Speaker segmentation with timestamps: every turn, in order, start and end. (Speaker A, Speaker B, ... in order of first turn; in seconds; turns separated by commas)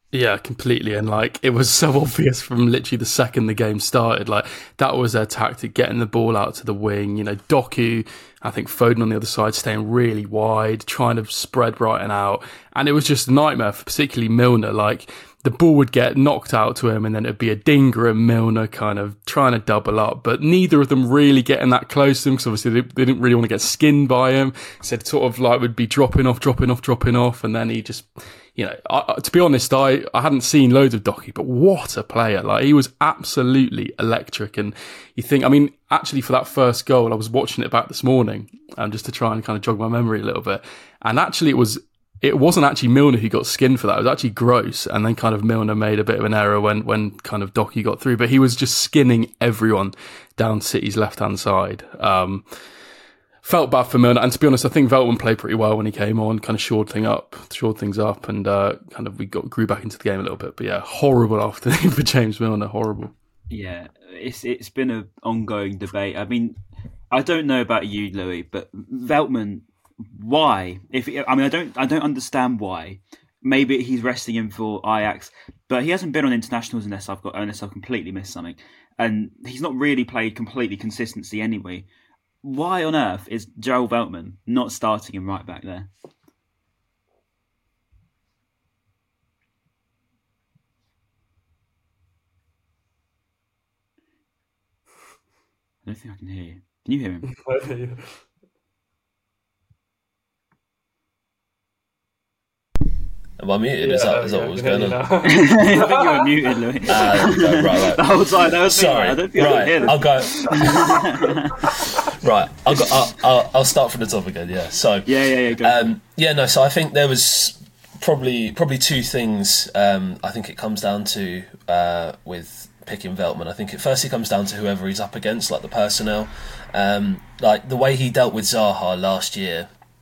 Speaker A: 0.1-52.4, Speaker A: 53.4-63.1, Speaker B: 63.5-66.6, Speaker B: 67.1-81.9, Speaker B: 82.4-85.9, Speaker B: 95.8-97.3, Speaker A: 97.3-98.1, Speaker C: 103.4-105.0, Speaker A: 103.8-106.2, Speaker B: 105.2-111.9, Speaker C: 106.9-111.2, Speaker C: 112.1-129.7, Speaker B: 115.0-115.9